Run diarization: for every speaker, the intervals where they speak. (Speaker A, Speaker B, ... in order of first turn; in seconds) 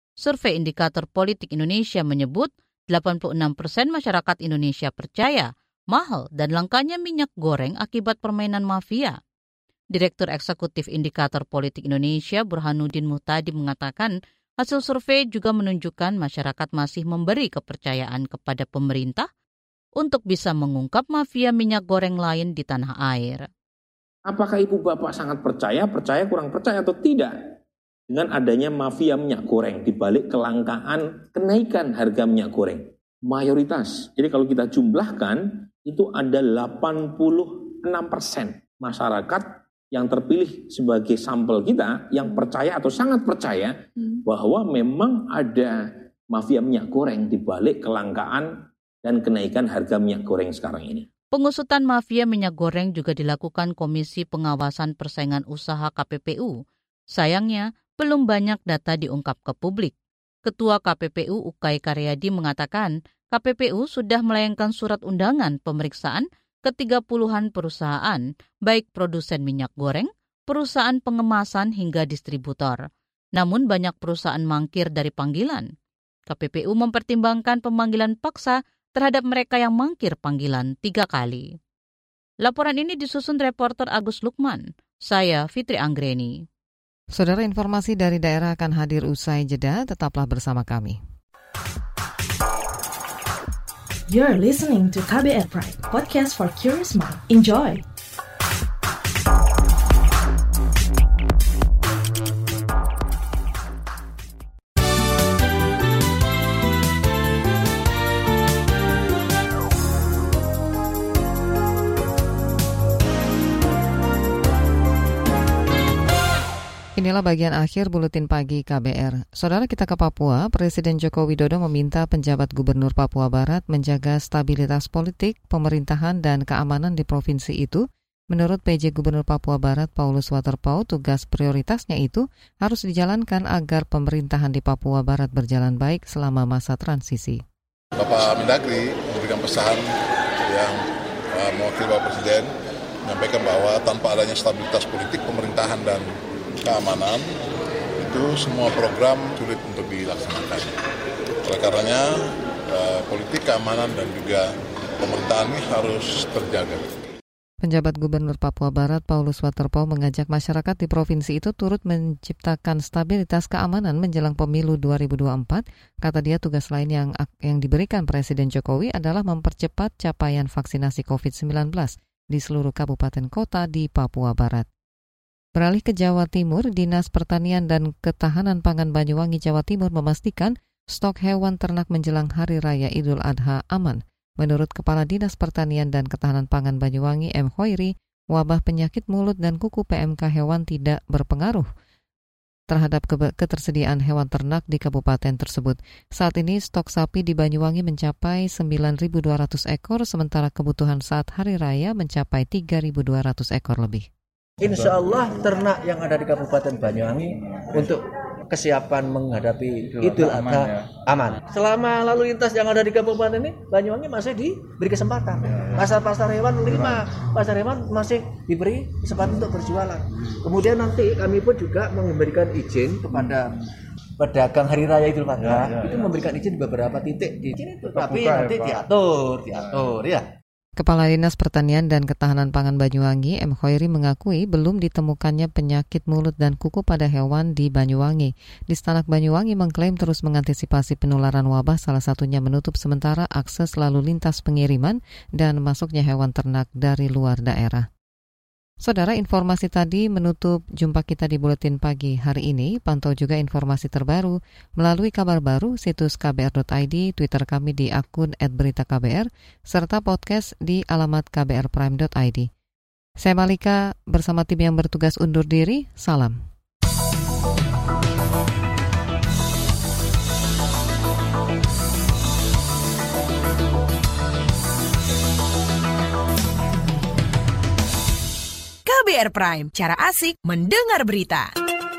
Speaker A: 0.2-9.2, 9.9-19.3, 20.0-23.5, 51.3-56.6, 57.1-59.9, 60.5-72.8, 73.3-75.7, 76.3-81.5, 82.4-86.4
Speaker B: 24.3-27.4, 28.1-45.8, 46.3-48.5, 49.0-51.1
Speaker C: 87.1-91.0, 117.0-137.4, 157.6-174.7, 175.6-191.7, 192.7-204.1, 230.8-247.9, 248.8-262.5, 263.2-266.4
Speaker D: 94.1-97.8
Speaker E: 138.0-142.5, 143.0-146.1, 146.6-147.3, 148.0-150.8, 151.4-156.9
Speaker F: 204.6-223.5, 224.2-230.2
Speaker G: 278.9-281.5